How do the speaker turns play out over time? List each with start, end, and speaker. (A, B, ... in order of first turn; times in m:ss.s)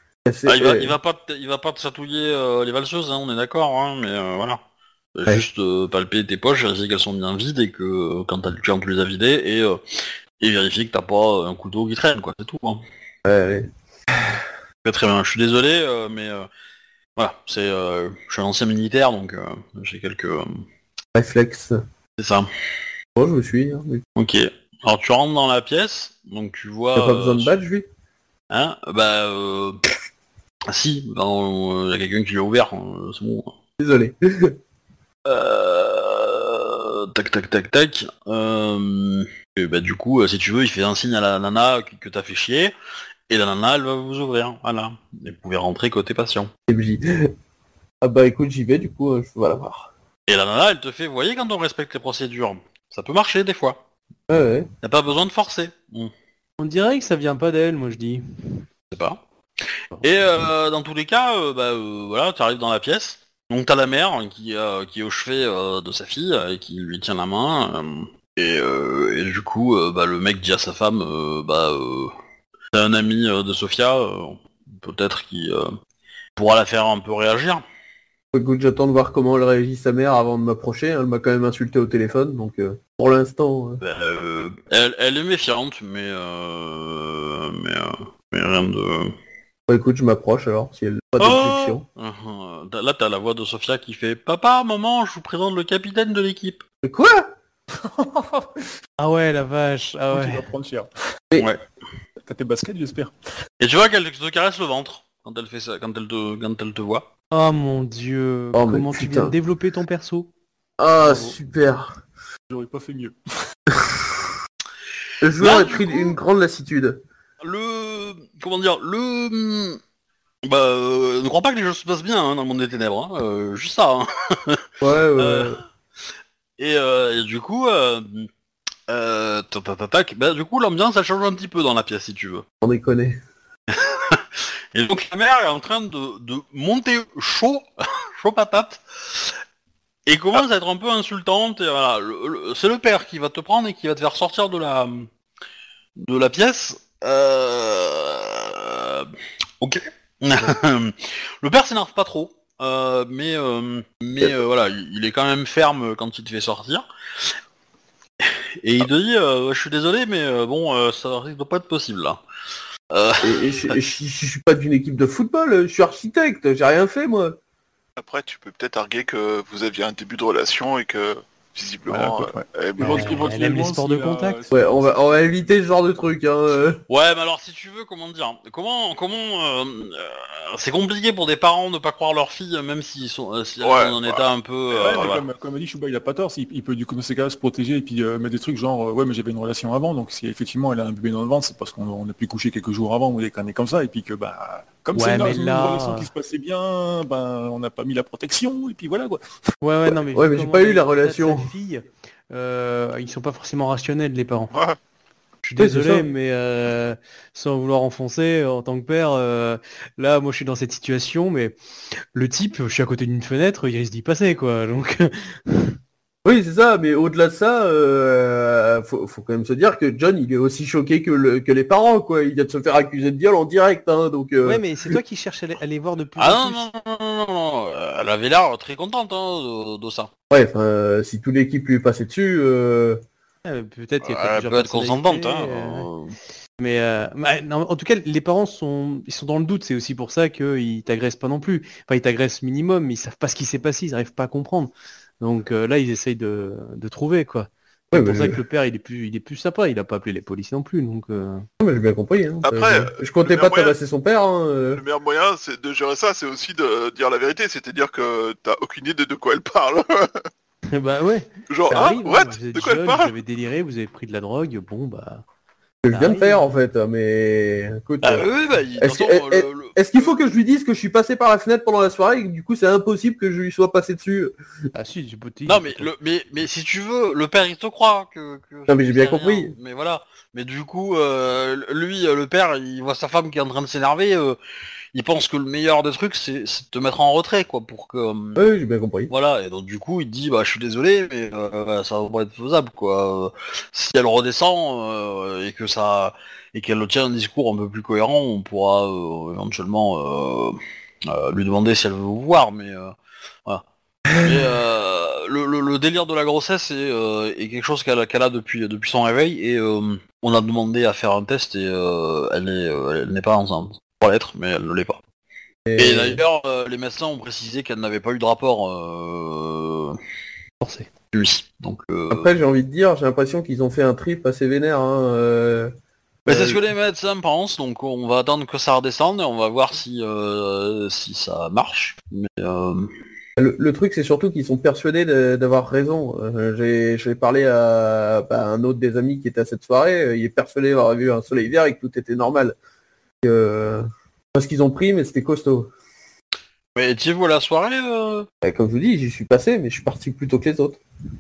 0:00.2-0:01.0 A
0:00.5-0:04.6 B
0:05.1-0:12.8 B
0:13.2-0:13.7 A
0:14.8-0:16.5 B
0:17.2-0:20.6 B
0:21.1-0:21.8 A
0:22.2-0:22.5 B
0:23.2-0:24.0 A
0:24.2-0:27.5 B
0:27.0-0:27.9 A
0:28.5-0:29.8 B
0:30.7-0:33.5 B
0:33.8-0:34.6 A
0:35.3-0:42.7 B
0:43.3-0:46.5 B
0:46.7-0:47.3 A
0:48.0-0:49.9 A
0:50.3-0:53.8 B
0:54.3-0:54.7 A
0:54.8-0:56.1 B
0:56.6-0:58.2 C
0:58.9-0:59.2 B
1:00.0-1:12.1 B
1:12.7-1:15.7 B
1:16.4-1:17.6 B
1:18.3-1:23.8 A
1:23.8-1:29.1 B
1:29.7-1:31.8 A
1:31.2-1:36.6 B
1:36.8-1:37.3 A
1:37.7-1:38.6 D
1:39.0-1:40.5 C
1:40.1-1:40.9 D
1:42.2-1:43.1 D
1:43.6-1:47.1 B
1:47.3-1:50.3 C
1:48.5-1:49.3 A
1:50.8-1:52.0 A
1:51.0-1:51.3 C
1:52.5-1:53.1 D
1:53.7-1:54.3 A
1:55.2-1:57.0 A
1:55.4-1:56.2 B
1:57.4-1:59.8 B
2:00.4-2:05.6 B
2:04.8-2:05.6 A
2:06.6-2:08.3 B
2:08.9-2:12.4 B
2:12.6-2:13.2 A
2:13.7-2:19.3 B
2:20.0-2:25.1 B
2:26.0-2:36.8 B
2:38.2-2:42.2 B
2:42.9-2:43.8 B
2:43.2-2:47.4 A
2:48.0-2:53.3 E
2:51.9-2:55.2 D
2:52.8-2:54.4 C
2:54.5-2:56.8 A
2:56.9-3:05.2 B
3:03.6-3:04.2 E
3:04.7-3:19.2 D
3:15.0-3:16.1 C
3:19.6-3:24.5 C
3:20.1-3:21.5 A
3:25.4-3:31.6 C
3:25.6-3:26.1 A
3:32.1-3:35.8 C
3:36.2-3:44.6 A
3:44.4-3:46.7 C
3:46.2-3:50.1 B
3:50.3-3:53.0 A
3:53.4-3:55.9 C
3:54.0-3:56.1 B
3:56.6-4:11.5 C
4:07.9-4:08.4 A
4:11.6-4:14.8 A
4:12.4-4:13.7 E
4:14.7-4:20.2 E
4:20.7-4:25.2 C
4:21.5-4:23.1 E
4:25.8-4:34.3 A
4:25.9-4:26.5 C
4:28.0-4:29.8 B
4:34.7-4:35.9 C
4:35.4-4:44.4 B
4:38.7-4:39.6 A
4:44.9-4:48.4 B
4:48.4-4:49.1 A
4:49.1-5:02.9 B
5:04.2-5:15.0 B
5:04.2-5:04.5 A
5:15.7-5:16.2 A
5:15.8-5:20.0 B
5:20.6-5:20.9 C
5:21.1-5:22.3 B
5:22.1-5:25.7 A
5:26.3-5:26.6 A
5:26.3-5:32.9 B
5:33.4-5:42.6 A
5:43.2-5:45.7 A
5:46.7-5:48.3 B
5:48.4-5:50.8 A